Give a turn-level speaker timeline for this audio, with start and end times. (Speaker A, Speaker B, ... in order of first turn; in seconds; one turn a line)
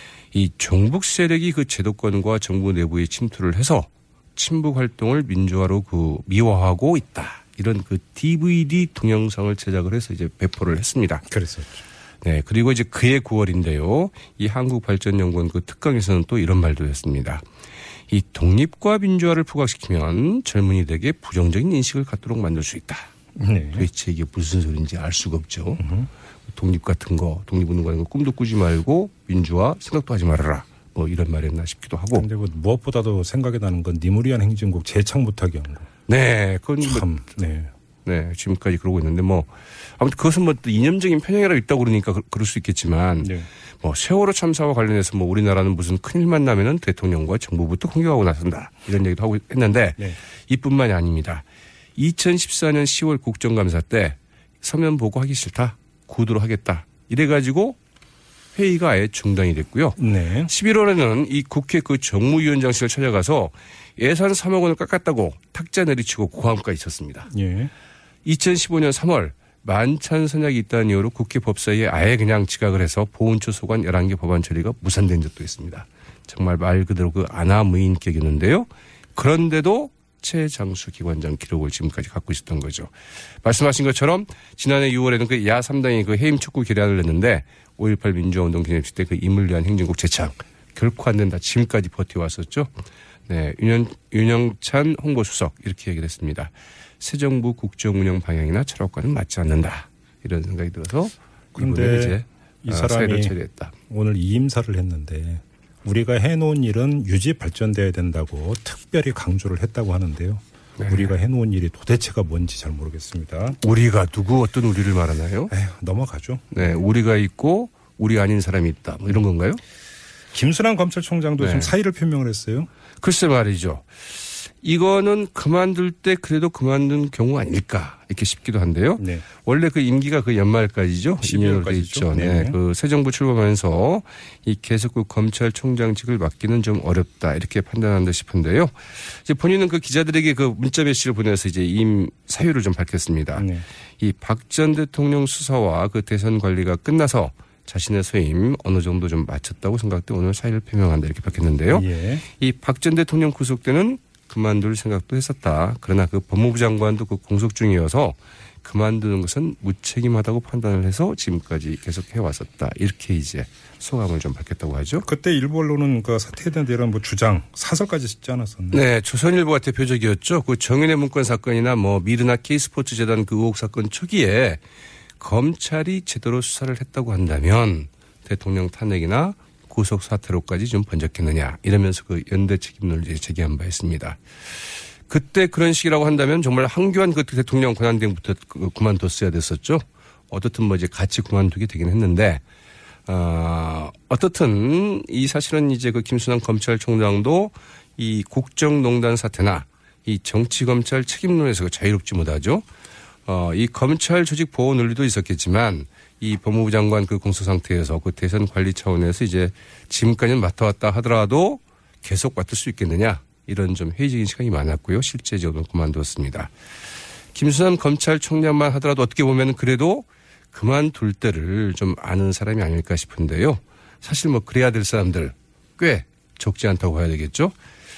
Speaker A: 0.3-11.3
Speaker B: 11.3-11.8
Speaker A: 12.2-17.4
Speaker A: 18.1-23.1
Speaker B: 23.4-23.9
Speaker A: 23.7-25.9
Speaker B: 25.8-26.1
Speaker A: 26.5-32.3
Speaker B: 32.1-35.9
Speaker A: 36.1-37.1
Speaker B: 36.8-37.7
Speaker A: 38.0-51.5
Speaker B: 43.2-43.5
Speaker A: 52.0-57.8
Speaker A: 58.5-67.3
Speaker B: 60.0-60.5
Speaker B: 67.3-67.7
Speaker A: 68.2-82.9
Speaker A: 83.4-92.7
Speaker A: 93.3-103.8
Speaker B: 101.5-103.4
Speaker B: 103.9-113.6
Speaker A: 110.8-111.1
Speaker A: 113.6-115.5
Speaker B: 115.5-116.8
Speaker A: 116.5-119.6
Speaker B: 120.3-122.7
Speaker A: 121.4-121.7
Speaker A: 123.0-123.9
Speaker A: 124.5-143.5
Speaker B: 129.0-129.2
Speaker B: 131.2-132.6
Speaker B: 143.4-143.7
Speaker A: 144.0-165.1
Speaker B: 151.7-152.2
Speaker B: 165.0-168.8
Speaker A: 168.7-174.6
Speaker A: 175.2-184.2
Speaker A: 185.1-192.4
Speaker A: 193.1-202.7
Speaker A: 203.3-216.5
Speaker A: 217.3-227.5